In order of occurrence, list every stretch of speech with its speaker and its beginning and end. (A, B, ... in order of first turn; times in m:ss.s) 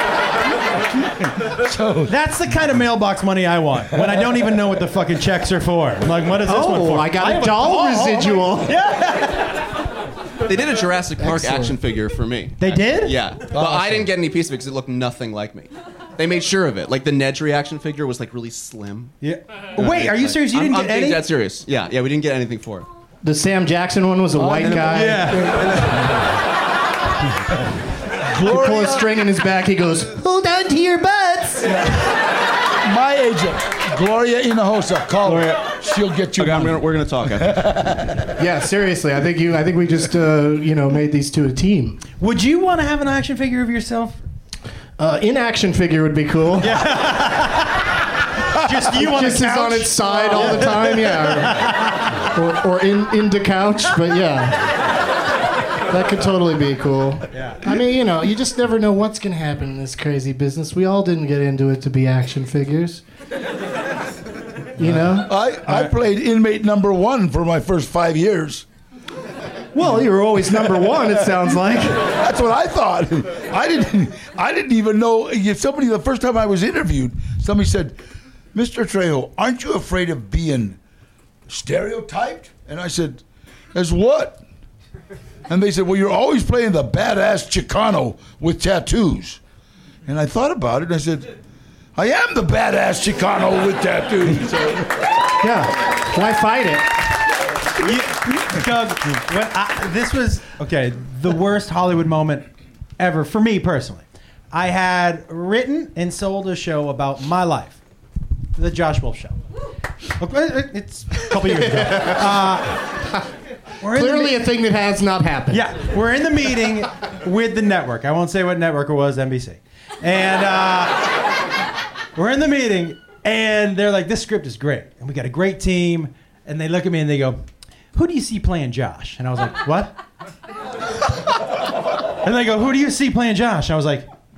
0:01.1-0:02.1 A
0:02.1-0:09.6 B
0:06.5-0:08.7 C
0:10.4-0:19.2 D
0:11.2-0:11.7 C
0:12.6-0:13.2 B
0:13.5-0:14.1 A
0:19.2-0:21.2 B
0:19.8-0:22.9 D
0:23.2-0:25.2 C
0:24.4-0:26.3 A
0:24.6-0:25.0 D
0:24.7-0:25.6 B
0:28.3-0:29.2 A
0:28.4-0:31.6 C
0:31.6-0:32.2 A
0:32.8-0:38.1 A
0:35.2-0:35.7 D
0:36.4-0:38.2 D
0:38.4-0:42.0 C
0:42.2-0:44.2 B
0:45.0-0:46.7 C
0:46.6-0:47.9 B
0:48.6-0:52.1 B
0:48.9-0:51.7 C
0:52.3-0:54.7 C
0:55.9-1:03.0 C
0:57.3-0:57.6 B
1:04.8-1:05.3 C
1:04.9-1:08.6 A
1:09.7-1:12.0 C
1:12.0-1:18.0 A
1:18.5-1:20.8 A
1:21.5-1:23.2 A
1:23.7-1:24.4 A
1:25.5-1:29.4 A
1:30.0-1:31.3 A
1:32.0-1:35.1 A
1:35.4-1:36.9 C
1:37.8-1:42.5 B
1:43.0-1:47.8 B
1:48.5-1:49.4 B
1:50.2-1:52.9 B
1:51.6-1:52.2 C
1:53.8-1:54.4 B
1:53.8-1:55.6 C
1:55.5-2:01.2 B
2:02.1-2:07.4 B
2:07.9-2:10.0 B
2:12.2-2:14.0 B